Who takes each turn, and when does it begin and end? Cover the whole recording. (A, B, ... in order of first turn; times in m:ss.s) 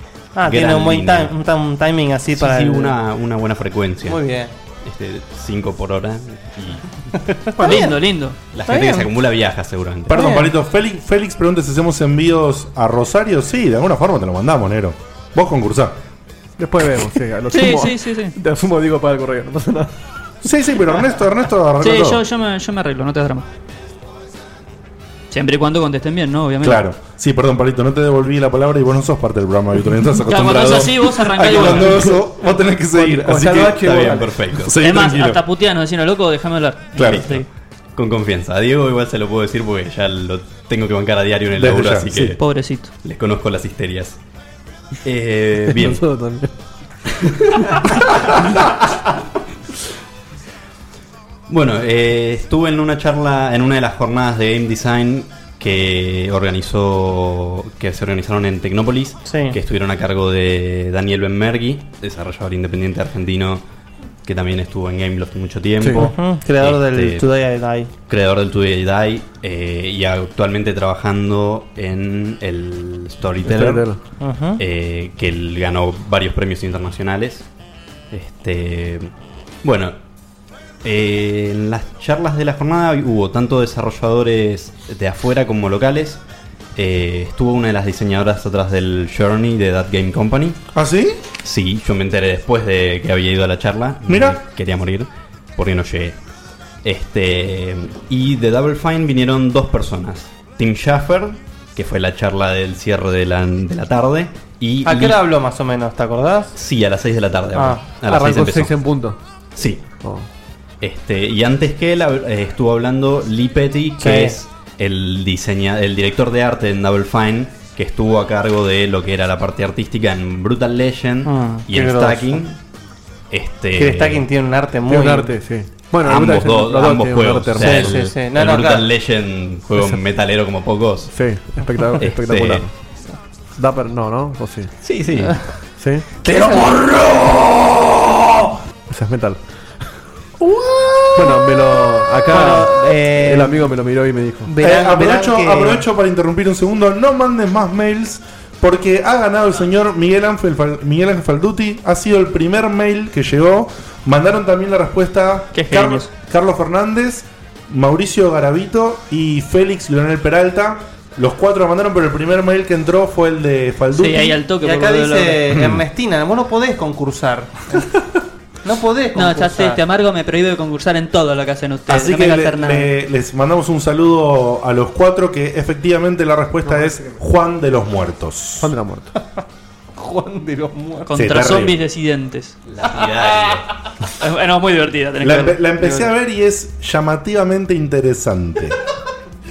0:00.3-0:03.0 A
0:00.4-0:01.3 B
0:02.4-0:04.2 B
0:04.0-0:04.5 A
0:04.8-0:06.9 B
0:07.6-0:08.4 C
0:07.6-0:07.9 A
0:08.5-0:10.2 B
0:08.7-0:09.1 A
0:10.1-0:16.0 D
0:16.6-0:19.9 E
0:17.5-0:18.3 C
0:20.4-0:22.2 D
0:21.8-0:23.5 C
0:25.3-0:26.8 C
0:26.6-0:35.4 D
0:30.2-0:32.1 C
0:32.9-0:34.4 E
0:33.8-0:34.7 B
0:34.8-0:37.4 C
0:37.0-0:37.3 D
0:38.0-0:42.4 B
0:41.5-0:42.4 D
0:42.3-0:42.9 C
0:43.0-0:44.2 B
0:45.0-0:46.0 B
0:45.6-0:46.5 E
0:47.1-0:48.1 B
0:51.5-1:03.6 B
0:59.2-0:59.6 A
1:04.2-1:07.3 B
1:05.8-1:06.1 E
1:05.9-1:07.9 A
1:08.1-1:13.9 B
1:13.4-1:14.0 E
1:14.2-1:14.6 A
1:14.6-1:17.4 B
1:18.1-1:19.1 B
1:19.6-1:20.0 B
1:20.8-1:26.2 B
1:26.7-1:30.6 B
1:30.7-1:31.2 D
1:31.4-1:36.2 B
1:34.1-1:34.4 D
1:36.8-1:45.2 B
1:44.8-1:46.6 A
1:46.5-1:48.8 B
1:47.5-1:47.8 A
1:48.0-1:49.2 E
1:49.5-1:49.9 B
1:49.9-1:50.3 E
1:50.8-2:02.6 B
1:54.0-1:54.4 A
2:01.2-2:02.4 A
2:03.3-2:04.2 B
2:03.7-2:05.3 A
2:04.9-2:08.0 E
2:06.0-2:11.1 B
2:07.6-2:08.9 A
2:11.1-2:12.7 E
2:12.0-2:12.7 B
2:13.6-2:14.7 E
2:14.8-2:15.5 B
2:15.8-2:16.1 E
2:16.2-2:16.7 A
2:18.9-2:19.4 E
2:21.1-2:24.5 E
2:22.3-2:23.6 A
2:24.5-2:25.8 A
2:24.6-2:44.4 D
2:35.5-2:36.1 C
2:43.9-2:45.5 C
2:44.6-2:47.9 A
2:45.5-2:45.8 D
2:48.6-2:49.8 A
2:49.1-2:52.9 C
2:51.9-2:58.7 D
2:58.6-2:59.1 E
3:00.0-3:01.1 A
3:01.0-3:02.6 C
3:01.1-3:01.8 D
3:02.7-3:03.6 B
3:04.1-3:06.0 C
3:05.2-3:08.8 D